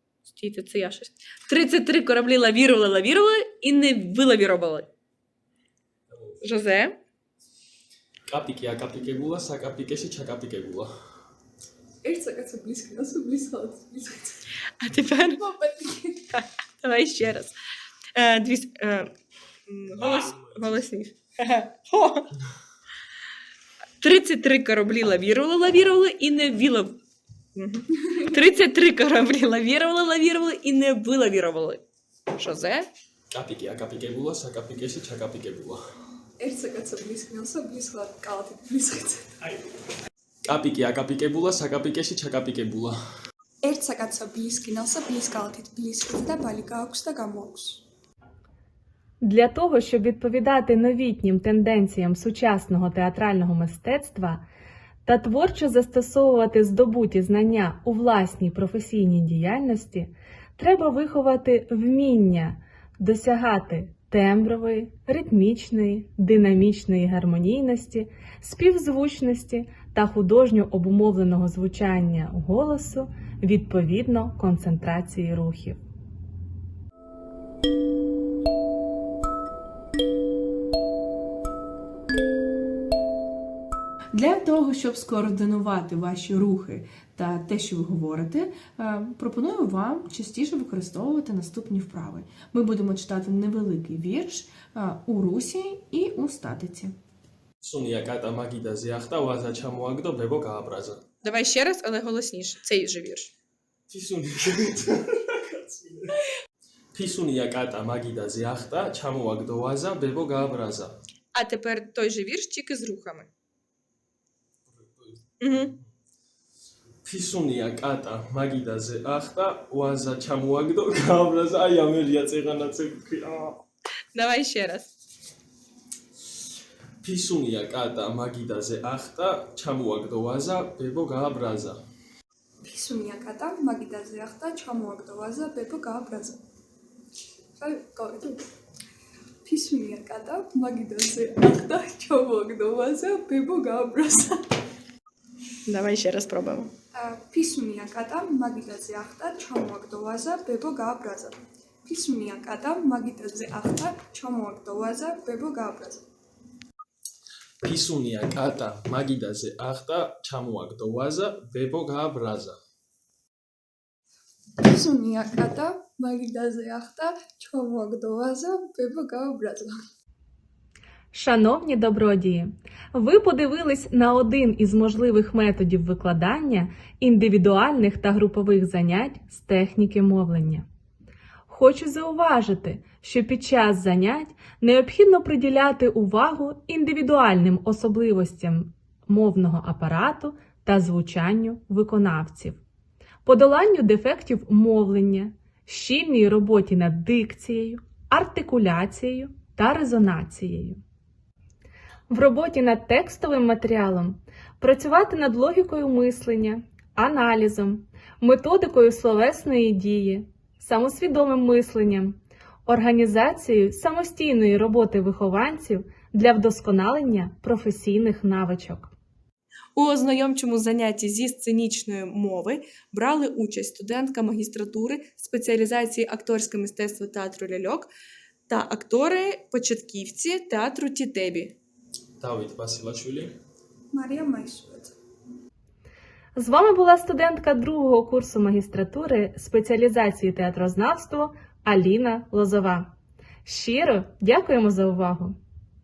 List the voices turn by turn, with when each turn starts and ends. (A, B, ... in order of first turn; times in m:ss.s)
0:00.3-0:04.9 A
0:06.1-0:06.4 B
0:06.4-0:07.0 A
0:08.3-0:10.9 B
0:12.0-0:14.4 C
0:14.8-0:15.5 A
0:15.4-0:16.3 C
0:16.3-0:17.5 A
0:18.1-0:19.1 A
0:19.7-0:22.3 A
0:19.9-0:20.8 B
0:24.0-0:27.0 A
0:27.5-0:31.8 A
0:32.4-0:32.9 A
0:33.3-0:35.8 B
0:36.4-0:39.3 C
0:40.4-0:43.0 B
0:43.6-0:47.8 C
0:49.2-0:54.4 D
0:55.0-1:15.8 D
1:24.1-1:36.9 E
1:37.6-1:41.0 B
1:41.2-1:43.3 A
1:43.9-1:46.2 B
1:46.9-1:51.0 B
1:51.3-1:53.3 A
1:54.7-1:55.9 B
1:55.4-1:55.7 A
1:57.0-2:03.6 B
2:04.1-2:04.9 A
2:07.0-2:11.8 B
2:12.6-2:16.4 C
2:17.6-2:18.4 C
2:19.4-2:24.4 C
2:25.6-2:26.7 A
2:26.9-2:36.0 C
2:37.6-2:42.5 B
2:44.6-2:49.7 C
2:51.1-3:00.6 D
3:01.5-3:12.6 D
3:13.2-3:20.8 D
3:22.1-3:38.9 D
3:39.7-3:47.9 A
3:48.5-3:51.6 A
3:52.2-3:53.4 B
3:53.9-3:55.0 C
3:56.3-4:02.9 D
4:03.4-4:05.4 D